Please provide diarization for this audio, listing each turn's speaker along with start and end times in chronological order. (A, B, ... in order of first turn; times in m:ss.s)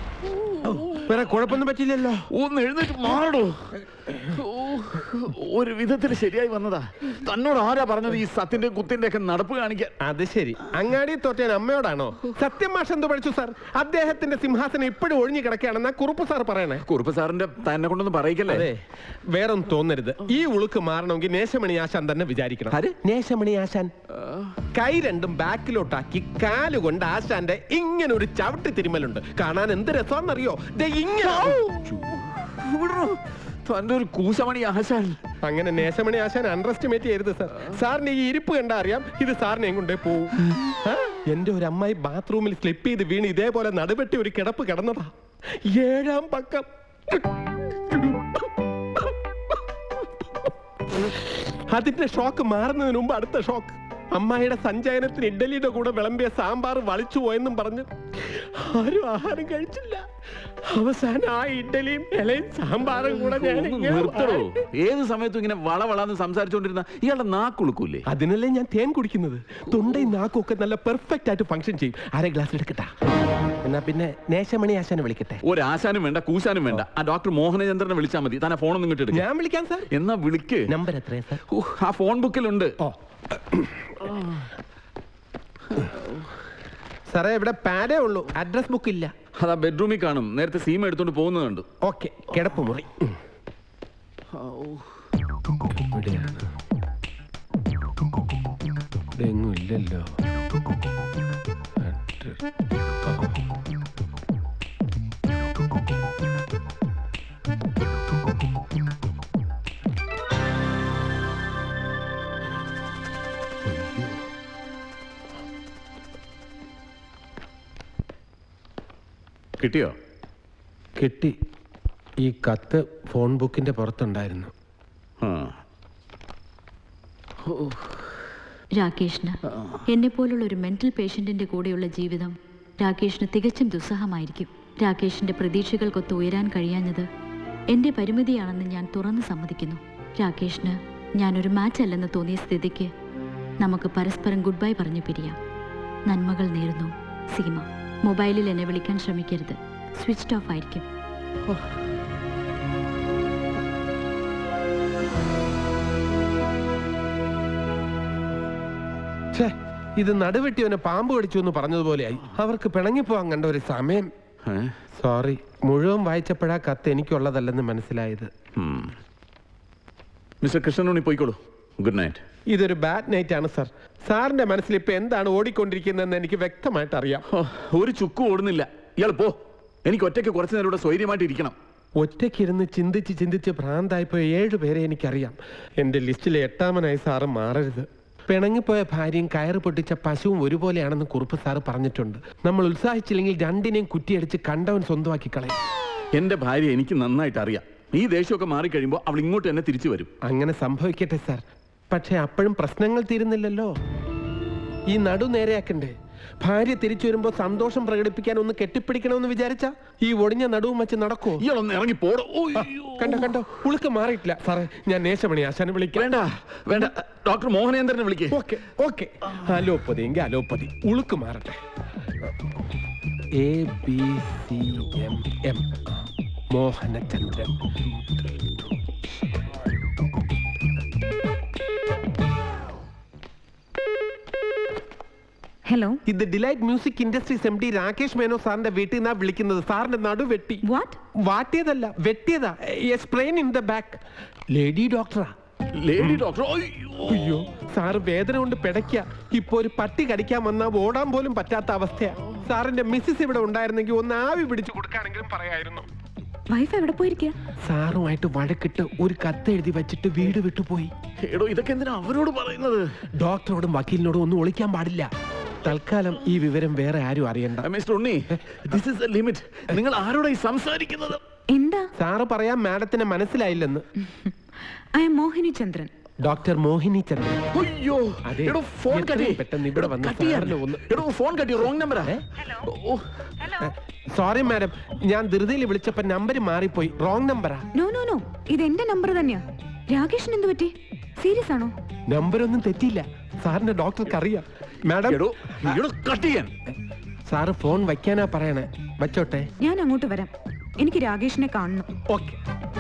0:00.6-0:01.0 A
0:00.9-0:02.3 B
0:02.3-0:09.9 A
0:10.0-0:16.8 B
0:16.8-0:18.7 A
0:18.5-0:18.8 B
0:19.3-0:23.9 B
0:24.2-0:24.5 A
0:24.7-0:31.6 B
0:31.2-0:35.2 A
0:35.4-0:45.1 B
0:45.6-0:47.2 B
0:47.9-0:48.4 B
0:51.7-1:00.0 B
1:00.7-1:04.6 B
1:03.0-1:08.0 A
1:08.1-1:12.9 B
1:13.6-1:15.4 B
1:15.4-1:19.2 A
1:19.1-1:19.9 B
1:19.9-1:20.7 A
1:20.7-1:21.4 B
1:21.5-1:22.8 A
1:22.8-1:24.4 B
1:27.1-1:29.1 B
1:29.4-1:31.7 A
1:31.8-1:33.2 B
1:34.4-1:34.8 A
1:35.8-1:36.5 B
1:39.2-1:40.1 B
1:41.8-1:42.4 B
1:53.7-1:54.2 B
1:59.6-1:59.9 A
2:01.0-2:01.4 B
2:02.2-2:04.5 B
2:05.2-2:05.5 A
2:07.4-2:08.0 A
2:08.8-2:17.1 C
2:17.7-2:22.9 C
2:23.6-2:25.4 C
2:26.1-2:30.9 C
2:39.3-2:44.1 B
2:44.5-2:44.7 A
2:45.0-2:48.3 B
2:48.6-2:48.9 A
2:50.4-2:52.2 A
2:52.5-2:57.2 B
2:57.3-2:59.4 A
2:59.9-3:01.6 A
3:02.0-3:15.6 B
3:16.1-3:20.1 A
3:20.2-3:23.7 B
3:24.9-3:31.4 B
3:31.4-3:33.5 A
3:32.6-3:36.1 B
3:36.0-3:38.4 A
3:38.3-3:41.6 B
3:43.4-3:45.7 B
3:46.5-3:48.2 B
3:55.7-3:56.0 D
3:56.1-4:00.6 B
4:00.7-4:01.0 D
4:01.2-4:04.0 B
4:04.5-4:05.3 B
4:05.8-4:07.4 A
4:07.0-4:15.9 B
4:16.5-4:17.4 D
4:17.6-4:20.9 B
4:21.2-4:22.8 A
4:23.2-4:25.1 B
4:25.6-4:27.7 B
4:27.6-4:31.2 A
4:31.6-4:31.8 D
4:32.0-4:33.9 B
4:34.0-4:34.3 D
4:35.0-4:35.9 D
4:36.2-4:37.4 B
4:37.5-4:43.0 A
4:38.3-4:41.0 B
4:43.6-4:47.7 B
4:47.7-4:51.7 D
4:52.1-4:55.2 B
4:55.1-4:56.5 A
4:57.3-4:59.5 B
4:59.6-5:00.3 D
5:00.8-5:01.9 D
5:02.1-5:02.4 B